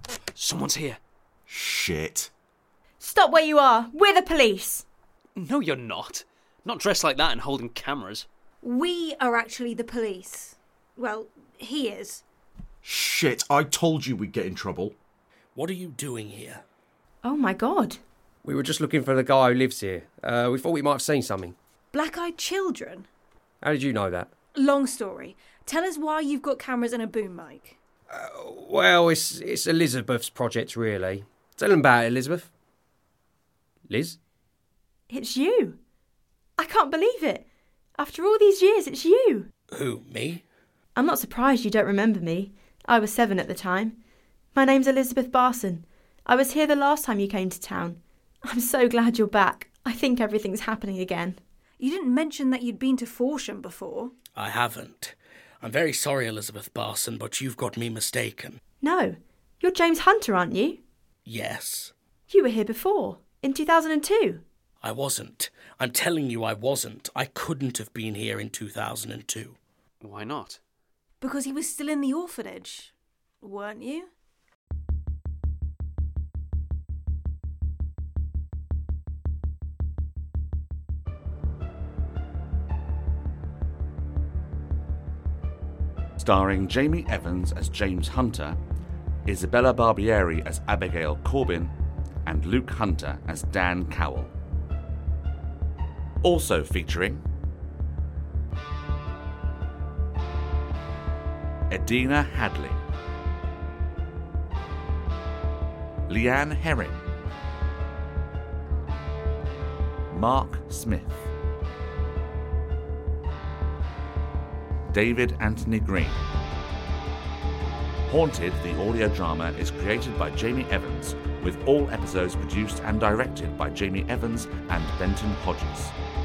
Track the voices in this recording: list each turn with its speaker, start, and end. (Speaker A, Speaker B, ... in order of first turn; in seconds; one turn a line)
Speaker A: 0.3-1.0
Speaker B: 1.5-2.3
Speaker C: 3.0-4.8
Speaker A: 5.3-8.2
Speaker D: 8.6-12.2
Speaker B: 12.8-14.9
Speaker E: 15.5-16.6
Speaker C: 17.2-18.0
Speaker F: 18.4-21.6
Speaker D: 21.9-23.1
Speaker F: 23.6-24.3
Speaker D: 24.5-27.8
Speaker F: 28.1-32.5
Speaker F: 33.9-34.2
Speaker C: 35.1-35.8
Speaker C: 36.6-39.5
Speaker E: 39.7-40.4
Speaker C: 41.0-44.0
Speaker C: 44.5-51.4
Speaker D: 51.8-54.2
Speaker E: 54.3-58.6
Speaker C: 58.8-60.8
Speaker E: 61.2-61.9
Speaker C: 62.3-64.4
Speaker E: 64.8-69.6
Speaker A: 70.0-70.6
Speaker D: 71.2-74.1
Speaker G: 86.2-88.6
Speaker G: 89.2-91.7
Speaker G: 92.2-94.3
Speaker G: 96.2-97.2
Speaker G: 101.7-102.8
Speaker G: 106.1-107.0
Speaker G: 110.1-111.3
Speaker G: 114.9-116.2
Speaker G: 118.1-125.9